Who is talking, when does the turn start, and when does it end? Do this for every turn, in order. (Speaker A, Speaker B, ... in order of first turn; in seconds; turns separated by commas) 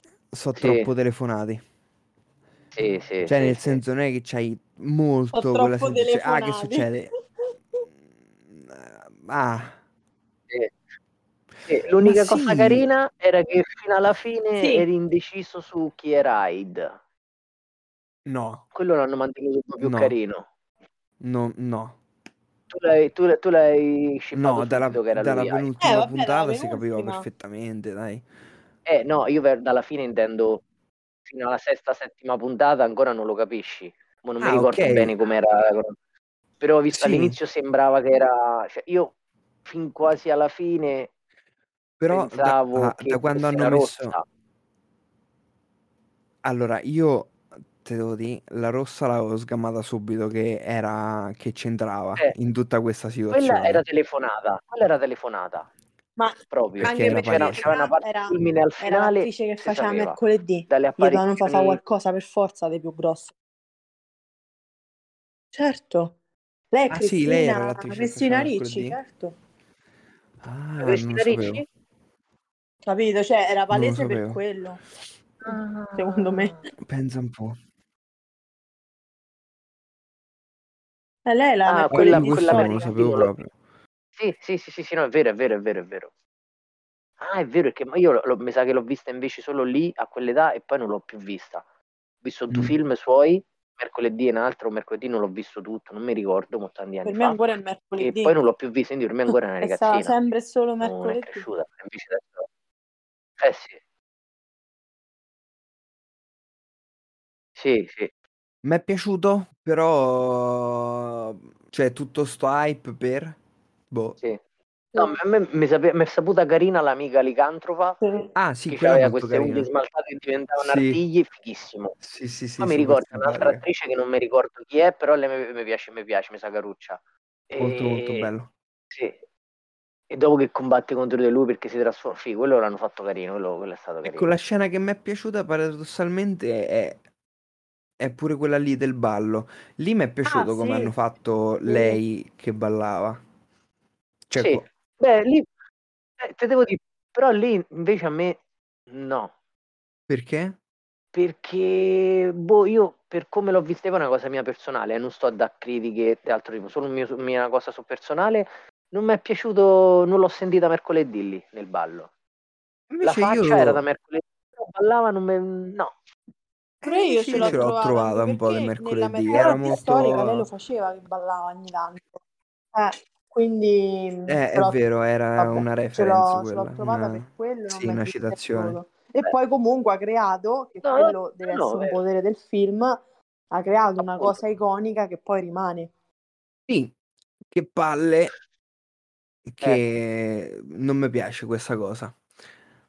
Speaker A: 0.3-1.6, Speaker B: 0.6-0.9, Speaker B: 2.7-3.8, Speaker A: 3.2-7.1, Speaker C: 5.3-6.9, Speaker A: 8.4-9.8, Speaker B: 11.7-17.0, Speaker A: 12.0-12.9, Speaker C: 14.6-14.8, Speaker A: 18.2-18.6, Speaker B: 18.7-20.5, Speaker A: 19.8-20.1, Speaker A: 21.2-22.0, Speaker B: 22.7-25.7, Speaker A: 24.3-28.2, Speaker C: 25.8-27.2, Speaker B: 28.9-30.6, Speaker B: 31.3-36.0, Speaker A: 34.4-35.1, Speaker B: 36.6-39.1, Speaker A: 36.9-37.4, Speaker B: 39.6-41.1, Speaker A: 42.0-44.2, Speaker B: 42.1-44.2, Speaker A: 46.4-53.8, Speaker B: 53.3-55.7, Speaker C: 56.2-63.3, Speaker B: 56.5-60.2, Speaker A: 56.8-57.7, Speaker B: 60.7-61.8, Speaker C: 65.5-66.2, Speaker C: 66.7-69.3, Speaker A: 66.9-69.0, Speaker A: 70.4-71.6, Speaker B: 70.8-71.6, Speaker C: 72.8-74.8, Speaker A: 73.7-74.4, Speaker B: 75.4-76.6, Speaker C: 76.0-76.6, Speaker A: 76.8-77.6, Speaker C: 81.2-82.9, Speaker B: 81.7-83.3, Speaker A: 81.9-83.5, Speaker B: 84.2-86.1, Speaker B: 87.2-91.6, Speaker B: 92.2-97.4, Speaker C: 97.0-98.3, Speaker B: 98.0-100.1, Speaker C: 99.6-101.4, Speaker B: 100.8-102.5, Speaker B: 103.4-103.8, Speaker B: 107.6-108.1, Speaker A: 108.6-113.4, Speaker A: 113.9-114.2, Speaker B: 114.9-118.0, Speaker C: 118.0-118.3, Speaker A: 118.3-119.7, Speaker B: 118.7-122.0, Speaker A: 120.6-121.0, Speaker A: 122.0-123.6, Speaker B: 122.6-127.0, Speaker B: 127.5-128.3, Speaker A: 127.6-128.5, Speaker B: 128.9-129.2, Speaker B: 130.1-134.3, Speaker A: 134.0-137.0, Speaker A: 138.0-143.2, Speaker C: 140.2-140.9, Speaker C: 141.7-142.0, Speaker A: 144.3-144.6, Speaker B: 144.4-145.4, Speaker B: 146.2-148.4, Speaker B: 148.9-149.3, Speaker A: 150.1-150.6, Speaker B: 151.1-162.1, Speaker A: 162.9-163.8, Speaker B: 163.0-165.9, Speaker A: 166.8-170.5, Speaker C: 166.8-172.2, Speaker B: 167.3-167.7, Speaker C: 172.7-174.8, Speaker A: 174.3-178.8, Speaker C: 175.3-183.0, Speaker B: 180.8-182.0, Speaker C: 183.5-185.9, Speaker B: 184.0-184.4, Speaker A: 186.7-186.9, Speaker A: 187.5-188.3, Speaker A: 189.4-192.2